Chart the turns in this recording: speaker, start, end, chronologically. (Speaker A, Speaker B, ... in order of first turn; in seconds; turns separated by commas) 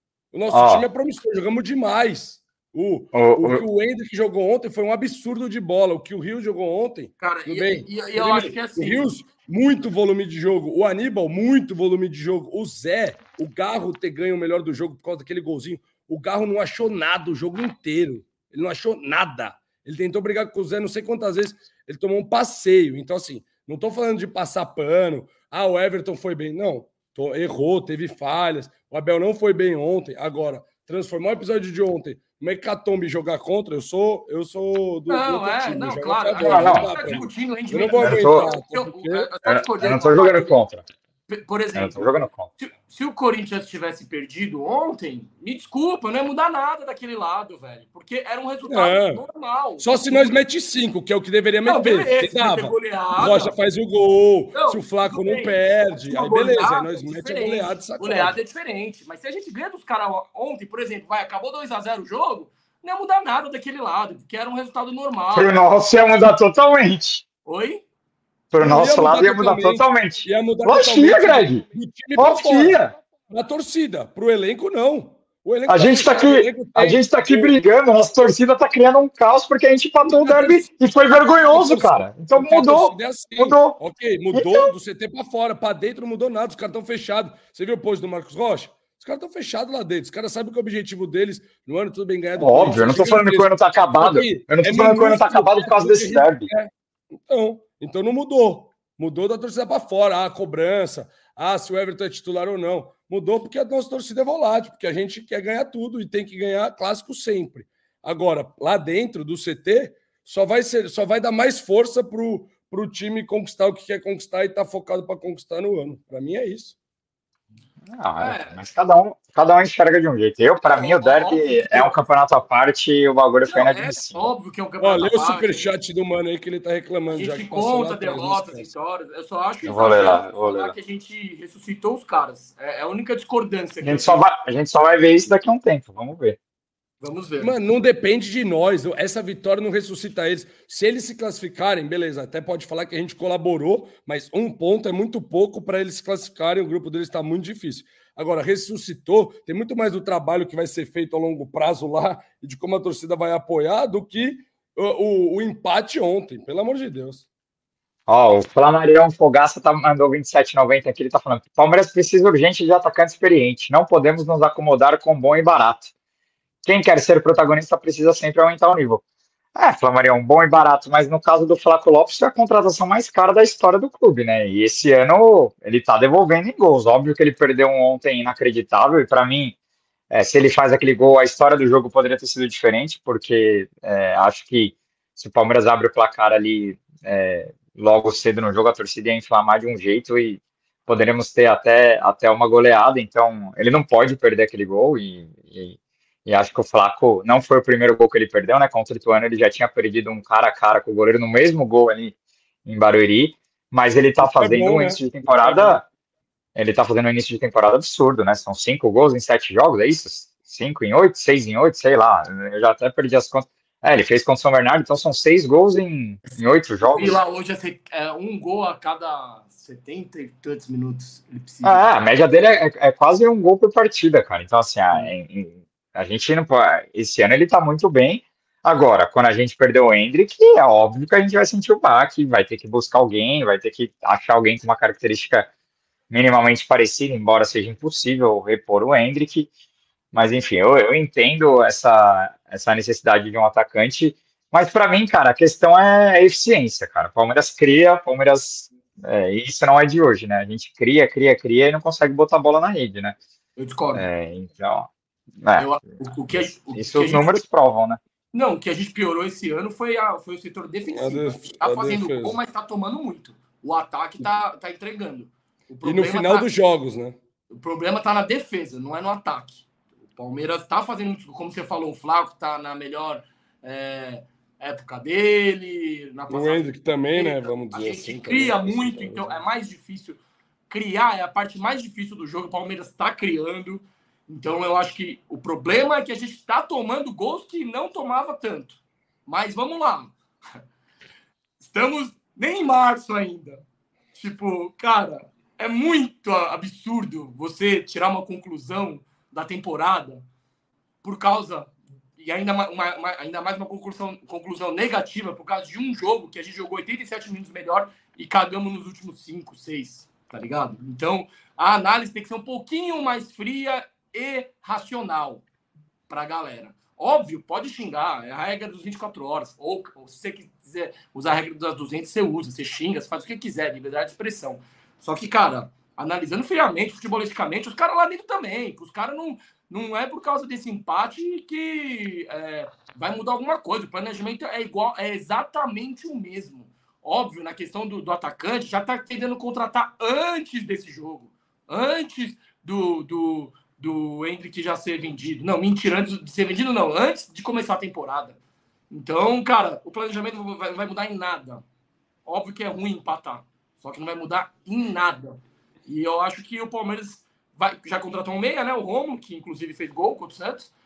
Speaker A: 0.3-39.3, Speaker B: 0.5-0.9, Speaker B: 3.1-3.6, Speaker C: 7.2-9.1, Speaker C: 35.1-40.6, Speaker B: 36.4-37.2, Speaker B: 38.0-38.5, Speaker B: 39.5-40.8, Speaker C: 41.3-50.4, Speaker B: 41.8-42.5, Speaker A: 48.6-49.2, Speaker A: 49.8-58.4, Speaker C: 51.7-53.6, Speaker C: 54.5-65.6, Speaker B: 65.3-67.2, Speaker C: 67.5-67.8, Speaker B: 68.5-71.6, Speaker A: 68.6-77.6, Speaker B: 72.2-72.9, Speaker B: 75.7-83.8, Speaker A: 80.0-80.7, Speaker A: 81.5-116.8, Speaker B: 84.3-84.7, Speaker B: 92.4-96.5, Speaker B: 117.9-124.3, Speaker C: 118.2-118.6, Speaker C: 120.7-122.0, Speaker C: 123.5-125.7, Speaker A: 124.8-128.7, Speaker C: 127.1-134.2, Speaker B: 129.6-130.8, Speaker B: 133.8-136.4, Speaker C: 137.0-137.6, Speaker A: 137.4-157.2, Speaker B: 158.1-165.9, Speaker B: 166.7-169.0, Speaker B: 169.6-179.6, Speaker B: 180.1-202.2, Speaker B: 202.7-205.8, Speaker A: 204.2-205.8, Speaker B: 206.6-217.2, Speaker C: 216.9-221.9, Speaker B: 221.6-235.5, Speaker B: 236.1-239.5, Speaker B: 240.1-253.2, Speaker C: 253.6-254.1, Speaker B: 253.9-258.0, Speaker C: 255.6-257.3, Speaker C: 258.3-266.4, Speaker A: 260.9-262.4, Speaker A: 265.8-267.2, Speaker C: 267.5-290.1, Speaker A: 276.3-279.4, Speaker C: 291.6-293.6, Speaker C: 294.1-300.3, Speaker C: 301.0-315.4, Speaker C: 316.1-348.4, Speaker C: 348.9-351.6, Speaker C: 352.3-360.7